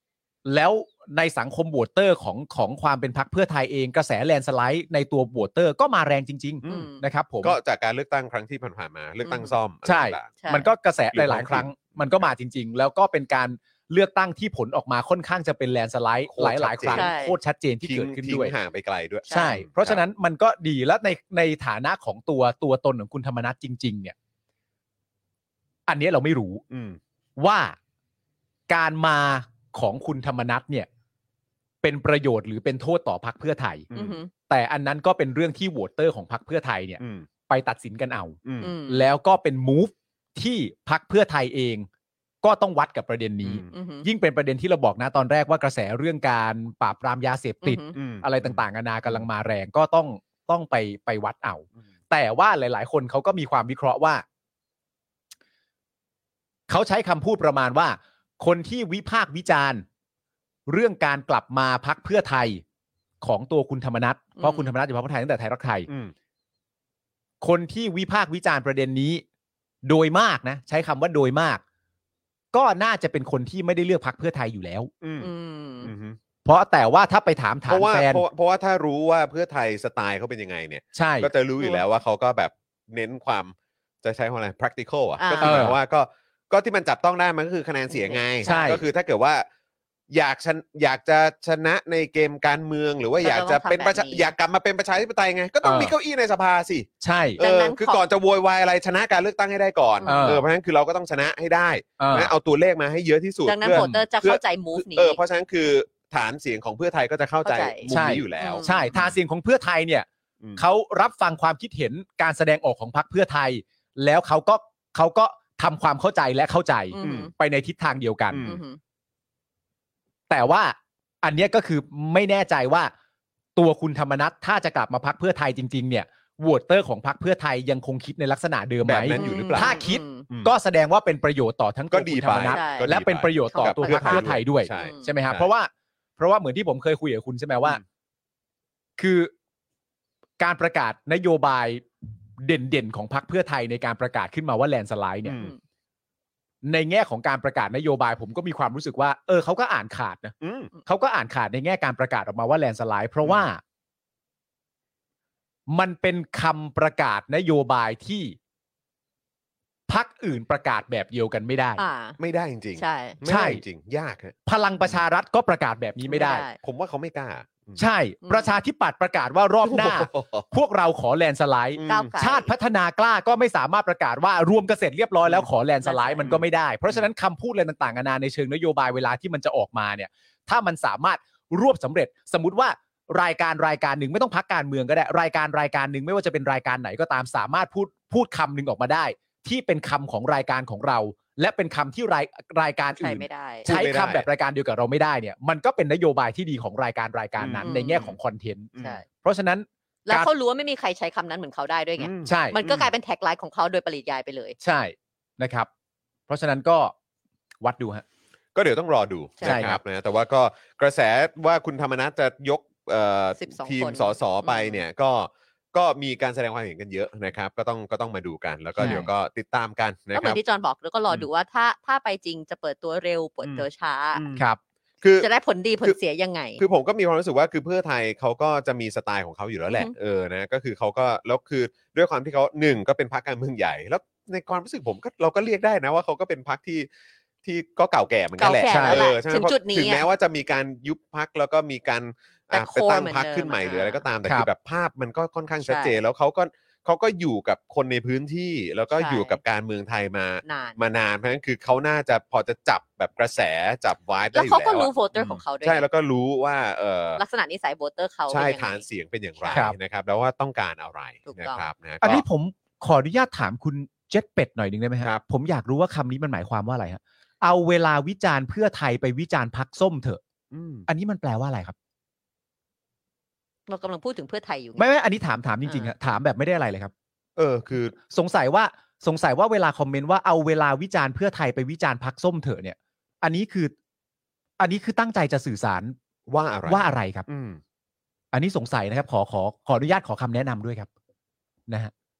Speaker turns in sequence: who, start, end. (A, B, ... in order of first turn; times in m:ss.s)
0:00.4-0:07.6 A
0:06.6-0:06.9 B
0:06.6-0:07.0 C
0:07.4-0:10.4 B
0:09.2-0:09.5 C
0:09.8-0:18.5 A
0:10.4-0:10.7 C
0:11.1-0:12.2 B
0:16.3-0:17.1 B
0:16.9-0:17.4 C
0:17.8-0:20.0 B
0:19.3-0:19.6 C
0:19.3-0:24.1 A
0:25.9-0:26.6 A
0:26.7-0:27.0 B
0:27.4-0:27.8 A
0:28.7-0:30.9 A
0:31.8-0:33.9 A
0:33.9-0:34.2 B
0:33.9-0:34.3 C
0:34.5-0:41.9 A
0:37.0-0:37.3 B
0:38.4-0:38.7 B
0:38.6-0:39.1 C
0:42.4-0:54.2 A
0:43.4-0:43.7 B
0:43.7-0:44.1 C
0:47.6-0:48.0 C
0:47.9-0:49.3 B
0:56.7-0:59.8 A
1:00.7-1:02.6 A
1:03.2-1:05.9 A
1:04.4-1:04.7 C
1:05.9-1:06.1 B
1:07.4-1:09.2 A
1:09.8-1:11.6 A
1:12.5-1:14.9 A
1:15.0-1:15.3 B
1:15.2-1:15.9 C
1:15.8-1:16.2 B
1:16.4-1:18.2 A
1:17.7-1:29.5 B
1:20.9-1:21.3 A
1:25.2-1:25.7 C
1:25.4-1:25.8 A
1:27.9-1:28.7 C
1:28.4-1:28.8 A
1:30.1-1:49.1 B
1:33.2-1:34.3 C
1:35.6-1:35.9 A
1:37.0-1:37.4 A
1:37.4-1:38.0 C
1:40.0-1:40.4 C
1:40.0-1:40.4 A
1:42.0-1:42.3 A
1:43.4-1:45.2 C
1:43.7-1:44.0 A
1:47.4-1:48.9 C
1:47.9-1:50.0 A
1:50.6-1:58.5 A
1:56.9-1:57.3 C
1:57.0-1:57.3 B
1:58.3-1:58.6 B
1:58.4-1:58.8 C
2:00.3-2:02.9 A
2:03.6-2:17.8 A
2:08.8-2:10.5 B
2:09.1-2:10.3 C
2:11.9-2:15.5 B
2:12.5-2:12.9 C
2:13.5-2:15.1 C
2:19.0-2:19.3 A
2:20.4-2:21.8 A
2:22.4-2:25.4 A
2:25.2-2:25.5 B
2:26.6-2:30.3 A
2:30.4-2:30.7 B
2:30.8-2:33.6 A
2:35.7-2:38.4 A
2:39.9-2:41.8 A
2:41.8-2:42.2 C
2:42.2-2:44.3 B
2:42.8-2:43.2 C
2:43.2-2:43.6 A
2:44.4-2:46.4 A
2:46.1-2:46.6 C
2:46.6-2:47.8 B
2:47.8-3:20.3 A
2:48.2-2:48.5 C
2:49.6-2:50.5 B
2:51.8-2:52.1 B
2:51.9-2:52.5 C
2:55.8-2:56.3 C
2:56.2-2:57.0 B
3:13.0-3:13.7 C
3:13.6-3:14.3 B
3:17.4-3:18.1 B
3:17.6-3:18.1 C
3:18.8-3:19.0 B
3:20.0-3:24.6 C
3:22.0-3:22.9 B
3:22.2-3:22.6 A
3:24.6-3:25.7 A
3:26.3-3:26.9 A
3:27.6-3:28.0 A
3:28.5-3:40.4 B
3:29.4-3:29.7 C
3:29.4-3:29.8 A
3:33.4-3:34.8 C
3:38.8-3:39.1 A
3:38.8-3:39.1 C
3:40.1-3:44.2 C
3:43.4-3:44.4 B
3:45.0-3:45.3 B
3:45.2-3:46.6 C
3:46.6-3:56.9 B
3:57.4-4:17.2 B
3:58.4-4:00.0 C
3:58.7-3:59.0 A
4:02.5-4:04.0 C
4:05.6-4:06.0 C
4:09.0-4:09.4 C
4:10.4-4:10.8 C
4:14.3-4:15.8 C
4:17.2-4:18.8 C
4:18.3-4:22.2 B
4:21.2-4:21.6 C
4:22.0-4:30.2 A
4:30.5-4:30.9 B
4:30.9-4:31.7 A
4:33.7-4:34.8 C
4:34.8-4:36.9 A
4:35.6-4:35.9 C
4:37.4-4:38.0 B
4:38.1-4:43.7 A
4:44.6-4:45.9 A
4:46.3-4:47.6 B
4:46.7-4:47.2 A
4:48.3-4:50.9 A